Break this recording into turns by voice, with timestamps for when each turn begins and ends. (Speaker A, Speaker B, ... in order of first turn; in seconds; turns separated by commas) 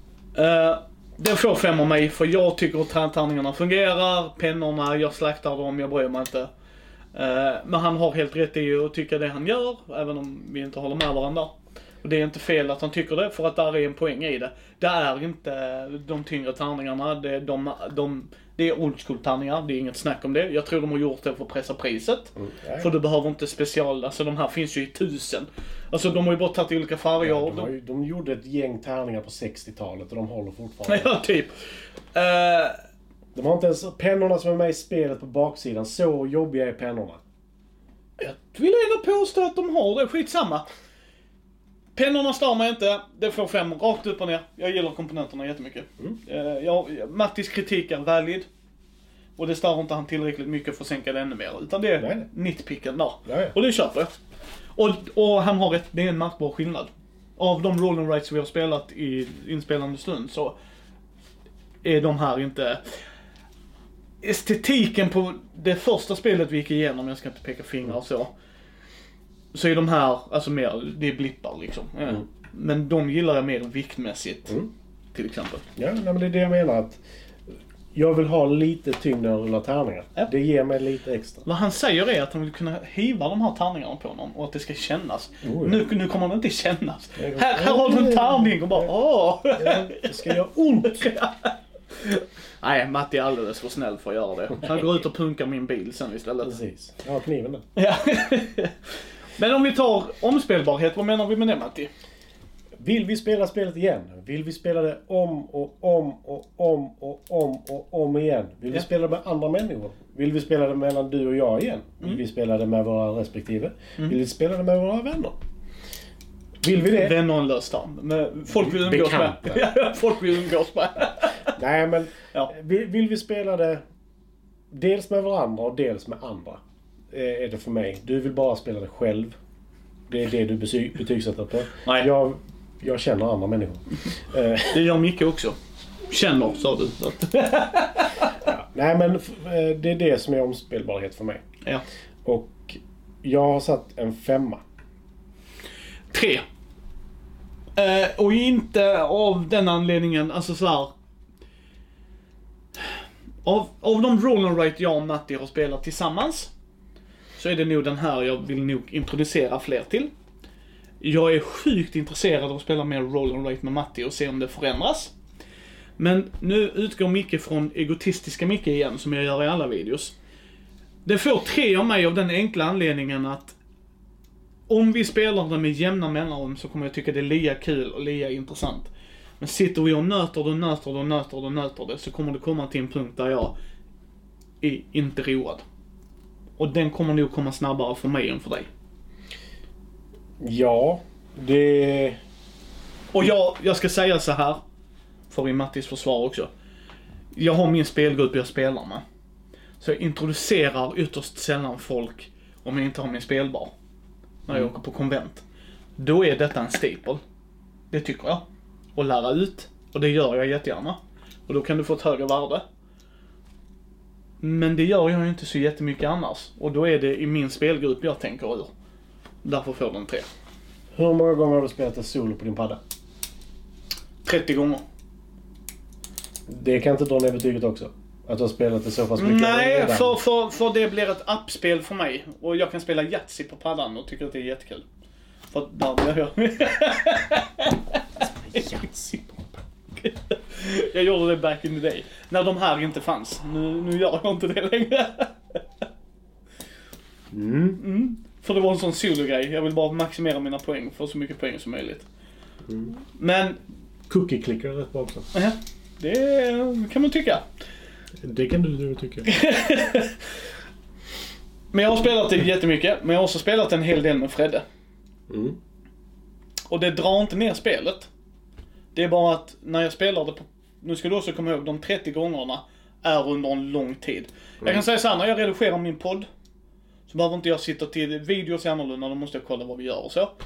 Speaker A: 0.3-6.5, Speaker A: 7.1-27.7, Speaker B: 22.4-22.9, Speaker B: 27.2-31.1, Speaker A: 30.9-31.6, Speaker A: 32.1-32.8, Speaker B: 33.3-37.2, Speaker A: 38.2-40.7, Speaker A: 41.9-48.5, Speaker A: 49.4-54.1, Speaker B: 52.0-52.3, Speaker B: 53.2-53.5, Speaker A: 54.8-60.5, Speaker A: 61.8-62.8, Speaker A: 64.2-68.3, Speaker A: 69.5-74.6, Speaker A: 75.1-75.6, Speaker B: 75.8-77.0, Speaker B: 77.9-81.5, Speaker A: 81.4-90.3, Speaker B: 85.4-85.8, Speaker B: 87.2-88.9, Speaker B: 89.5-91.1, Speaker A: 90.8-96.5, Speaker B: 96.4-97.7, Speaker A: 97.8-98.8, Speaker A: 99.4-101.9, Speaker B: 102.8-115.4, Speaker B: 116.6-117.2, Speaker A: 116.7-121.5, Speaker B: 118.5-119.6, Speaker B: 121.5-123.8, Speaker B: 124.7-126.6, Speaker B: 127.1-129.4, Speaker B: 130.1-134.8, Speaker A: 131.8-132.1, Speaker A: 134.7-135.6, Speaker A: 136.1-138.3, Speaker B: 138.4-141.4, Speaker B: 142.2-144.6, Speaker A: 146.1-146.4, Speaker A: 147.8-150.9, Speaker A: 153.4-156.5, Speaker A: 157.4-160.1, Speaker A: 161.0-165.1, Speaker A: 166.0-170.1, Speaker A: 171.0-173.6, Speaker A: 174.7-183.5, Speaker A: 184.6-185.6, Speaker A: 186.6-188.7, Speaker B: 190.4-192.2, Speaker A: 193.1-194.6, Speaker A: 195.3-196.5, Speaker A: 197.4-199.0, Speaker A: 199.8-203.7, Speaker A: 204.5-205.4, Speaker A: 206.0-207.2, Speaker A: 207.9-208.4, Speaker A: 208.9-212.6, Speaker A: 214.4-218.7, Speaker A: 219.4-220.3, Speaker B: 220.9-222.8, Speaker A: 224.2-224.8, Speaker B: 226.5-230.2, Speaker A: 229.2-234.8, Speaker A: 235.5-238.6, Speaker B: 238.2-239.5, Speaker A: 240.0-245.6, Speaker B: 247.3-247.8, Speaker A: 247.8-252.1, Speaker B: 252.7-252.9, Speaker A: 253.0-253.6, Speaker B: 254.1-255.3, Speaker A: 255.3-257.4, Speaker B: 258.2-259.3, Speaker A: 259.2-260.2, Speaker A: 261.7-264.6, Speaker B: 265.3-265.6, Speaker A: 266.7-268.1, Speaker A: 268.9-276.3, Speaker A: 277.1-280.3